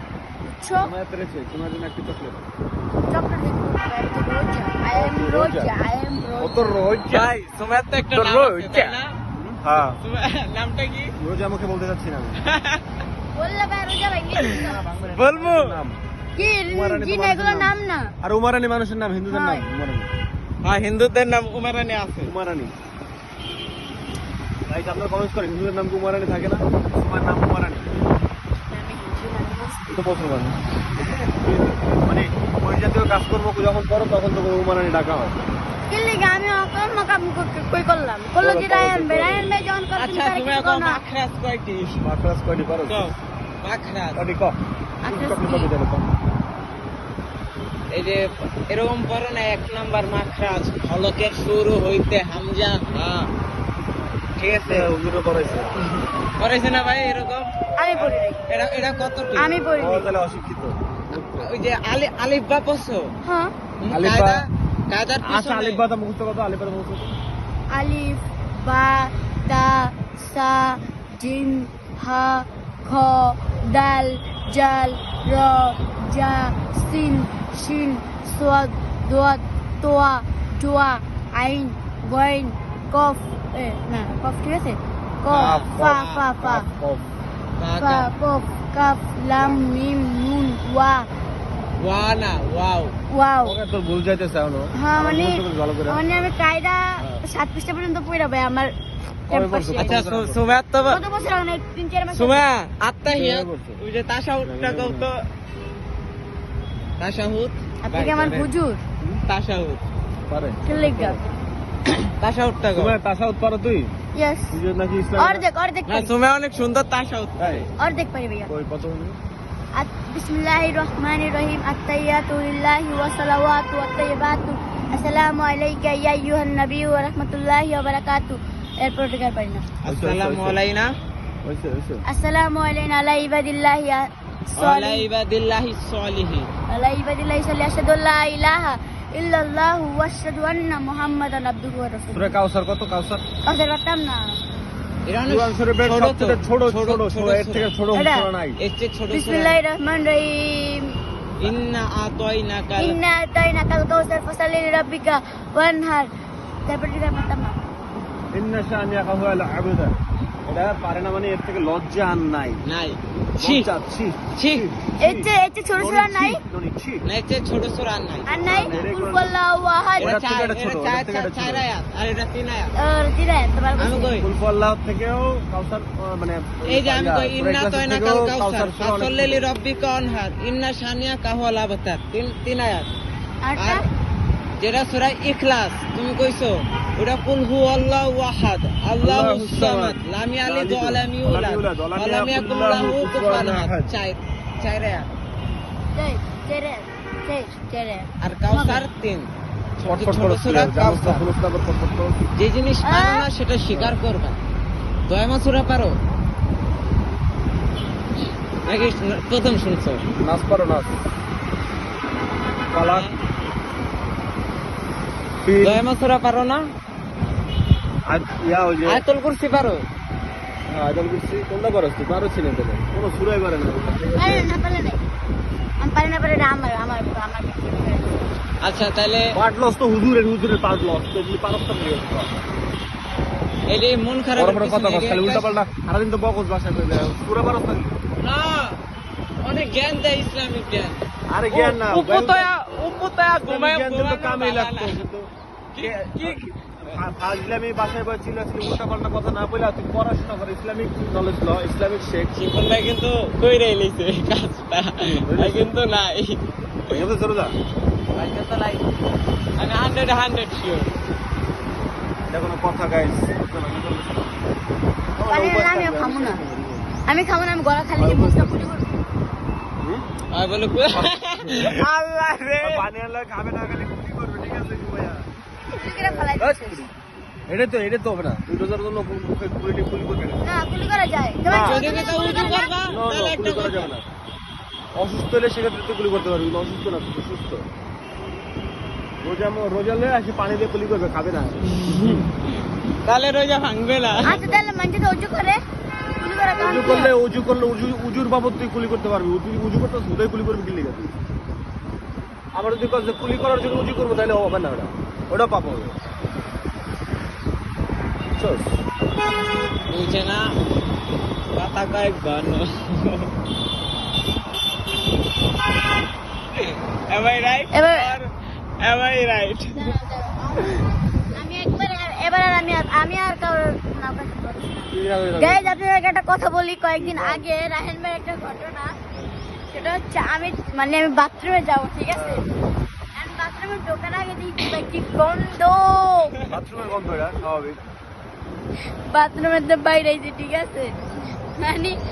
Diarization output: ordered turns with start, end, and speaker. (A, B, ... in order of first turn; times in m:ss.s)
0:00.4-0:00.9 A
0:00.8-0:02.4 B
0:03.1-0:06.7 A
0:04.9-0:05.7 B
0:06.4-0:07.3 B
0:07.1-0:09.1 C
0:08.1-0:10.0 B
0:10.0-0:11.1 C
0:11.2-0:12.5 B
0:12.4-0:13.0 C
0:13.3-0:14.8 A
0:14.4-0:15.8 C
0:14.6-0:16.0 B
0:16.4-0:18.1 A
0:16.7-0:20.1 B
0:19.3-0:19.6 A
0:20.6-0:22.3 C
0:22.2-0:22.7 B
0:24.7-0:27.9 B
0:28.7-0:29.9 A
0:29.9-0:35.4 B
0:35.9-0:41.0 A
0:38.4-0:39.5 B
0:40.0-0:42.0 C
0:42.0-0:43.1 B
0:42.8-0:44.2 C
0:44.1-0:46.1 B
0:45.0-0:45.7 A
0:47.9-0:53.3 C
0:54.4-0:54.9 C
0:54.5-0:55.7 B
0:56.4-0:59.6 C
0:57.8-0:58.4 A
0:59.3-1:00.1 A
0:59.8-1:01.5 B
1:01.4-1:03.1 C
1:03.2-1:03.5 A
1:03.8-1:05.8 C
1:03.9-1:04.4 B
1:05.2-1:07.1 B
1:07.7-1:26.7 A
1:25.3-1:26.2 C
1:25.4-1:27.1 B
1:27.6-1:28.1 C
1:27.8-1:31.1 A
1:29.4-1:29.6 B
1:31.8-1:32.9 C
1:33.1-1:33.6 A
1:33.4-1:36.0 B
1:34.8-1:38.7 A
1:37.0-1:37.2 B
1:39.3-1:40.0 A
1:39.3-1:40.5 B
1:39.8-1:41.0 C
1:40.9-1:42.4 A
1:42.1-1:45.2 C
1:43.1-1:43.8 B
1:44.4-1:45.1 B
1:47.0-1:48.5 C
1:47.8-1:48.8 A
1:49.2-1:49.8 C
1:50.3-1:51.2 B
1:50.6-1:51.2 A
1:52.2-1:53.0 C
1:52.7-1:53.9 B
1:54.1-1:54.6 A
1:54.5-1:55.4 B
1:55.2-1:56.1 A
1:55.9-1:57.7 C
1:57.4-1:57.6 B
1:57.8-1:58.5 A
1:58.5-1:59.2 B
1:59.7-2:09.6 A
2:09.8-2:11.0 C
2:09.8-2:10.6 B
2:11.4-2:12.0 B
2:12.0-2:15.1 A
2:14.6-2:16.5 C
2:16.7-2:22.3 A
2:22.1-2:23.2 B
2:23.4-2:24.4 A
2:25.1-2:27.7 C
2:25.2-2:28.6 B
2:27.9-2:28.3 A
2:28.6-2:29.6 C
2:29.1-2:31.0 A
2:31.4-2:33.0 C
2:32.8-2:36.1 A
2:36.6-2:37.6 A
2:38.3-2:42.6 B
2:42.6-2:43.7 C
2:43.4-2:47.0 B
2:44.4-2:44.6 C
2:45.0-2:46.4 A
2:47.0-2:48.8 C
2:48.2-2:50.1 A
2:48.4-2:49.3 B
2:50.0-2:52.7 C
2:50.0-2:51.6 B
2:52.8-2:54.2 A
2:53.8-2:54.3 C
2:54.2-2:59.5 B
2:56.6-3:02.9 C
3:03.4-3:03.9 A
3:03.6-3:03.9 C
3:04.6-3:15.1 C
3:09.0-3:13.9 B
3:15.9-3:18.8 A
3:18.2-3:19.3 C
3:19.8-3:21.2 C
3:19.8-3:22.2 B
3:22.4-3:24.4 C
3:22.8-3:23.2 A
3:23.7-3:23.9 B
3:25.1-3:26.0 C
3:28.6-3:30.0 C
3:30.2-3:31.0 B
3:32.7-3:33.1 B
3:32.8-3:33.2 C
3:35.4-3:35.8 B
3:35.6-3:36.7 C
3:38.0-3:39.0 B
3:38.8-3:39.8 C
3:40.7-3:44.5 B
3:44.2-3:45.0 A
3:45.8-3:48.3 A
3:48.6-3:49.3 C
3:49.3-3:52.3 B
3:53.7-3:55.6 C
3:54.3-3:58.0 B
3:58.2-3:58.8 C
3:59.4-4:05.0 C
4:01.3-4:02.4 B
4:03.4-4:12.3 B
4:05.7-4:07.0 C
4:12.3-4:17.0 C
4:15.0-4:15.7 B
4:16.9-4:17.6 B
4:18.1-4:18.9 C
4:19.6-4:20.9 C
4:22.3-4:24.4 B
4:25.2-4:26.9 B
4:25.3-4:26.4 A
4:27.0-4:28.8 A
4:28.0-4:28.6 B
4:29.8-4:30.1 B
4:30.3-4:32.8 C
4:30.9-4:31.9 B
4:32.6-4:35.3 B
4:35.7-4:36.8 A
4:35.9-4:36.9 B
4:37.5-4:40.4 B
4:40.4-4:42.8 A
4:41.4-4:41.8 B
4:41.6-4:44.0 C
4:42.9-4:44.0 B
4:44.9-4:47.6 B
4:49.2-4:52.2 B
4:51.7-4:52.4 C
4:53.0-4:54.3 C
4:54.0-4:54.7 B
4:54.2-4:55.6 A
4:56.2-4:57.1 A
4:56.6-5:01.2 B
5:02.5-5:05.9 B
5:08.3-5:08.8 B
5:09.9-5:10.5 C
5:11.5-5:13.3 C
5:16.5-5:18.3 C
5:17.7-5:18.1 A
5:18.8-5:19.9 C
5:19.7-5:29.0 A
5:24.9-5:25.8 B
5:27.0-5:27.4 B
5:29.7-5:32.4 A
5:32.1-5:32.4 B
5:33.1-5:36.4 A
5:36.4-5:37.8 B
5:39.1-5:41.0 A
5:41.6-5:42.0 A